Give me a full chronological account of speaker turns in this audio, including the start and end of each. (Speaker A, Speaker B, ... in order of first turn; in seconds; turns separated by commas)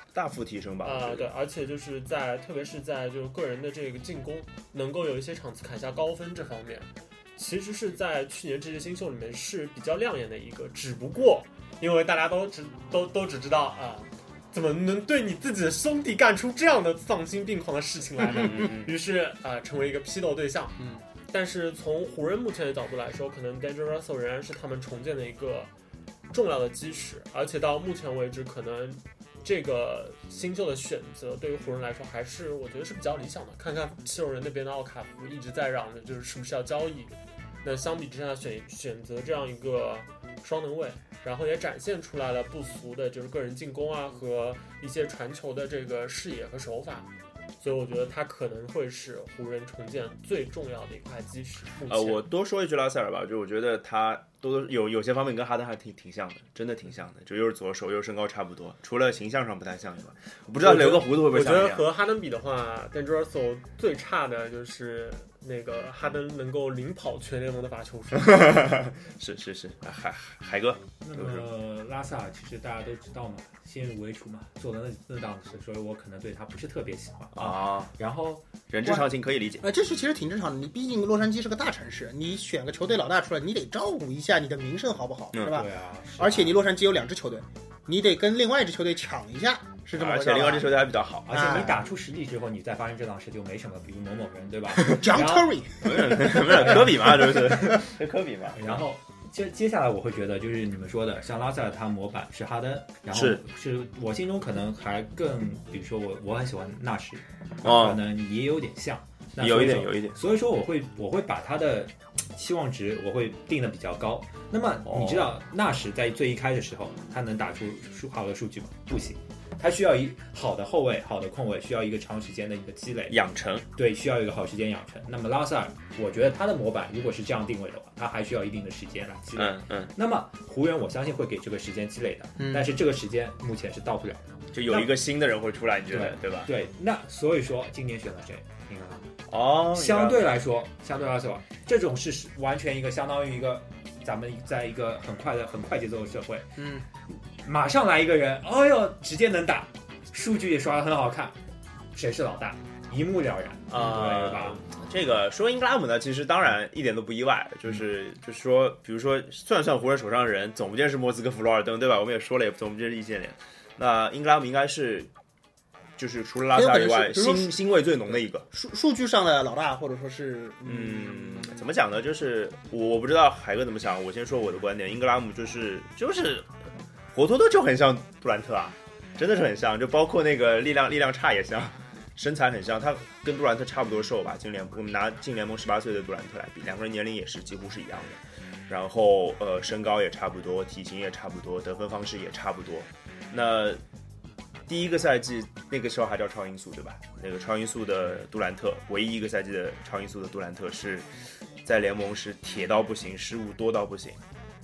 Speaker A: 0.1-1.3, Speaker B: 0.8-25.7, Speaker A: 18.2-18.9, Speaker B: 26.3-52.2, Speaker A: 51.9-61.9, Speaker B: 60.6-68.8, Speaker A: 68.2-71.5, Speaker C: 71.0-78.5, Speaker A: 77.3-77.9, Speaker A: 78.7-79.6, Speaker D: 79.6-91.8, Speaker A: 85.3-85.6, Speaker C: 85.5-86.6, Speaker A: 90.0-91.8, Speaker C: 91.3-95.5, Speaker A: 94.8-95.0, Speaker D: 94.9-96.7, Speaker A: 95.8-98.8, Speaker C: 96.1-98.0, Speaker C: 98.5-123.2, Speaker A: 103.1-103.4, Speaker A: 107.6-108.0, Speaker A: 109.4-110.2, Speaker A: 114.9-115.3, Speaker A: 123.1-123.7, Speaker C: 123.8-134.9, Speaker A: 129.3-129.9, Speaker D: 132.4-132.7, Speaker A: 134.5-136.5, Speaker C: 135.9-139.1, Speaker A: 139.3-140.3, Speaker C: 139.7-146.6, Speaker D: 146.6-146.8, Speaker C: 147.1-151.4, Speaker C: 151.9-154.6, Speaker A: 153.7-165.1, Speaker A: 166.0-168.5, Speaker D: 166.5-167.5, Speaker D: 168.5-171.6, Speaker A: 170.7-176.5, Speaker A: 177.1-193.8, Speaker A: 194.7-201.1, Speaker A: 201.6-204.2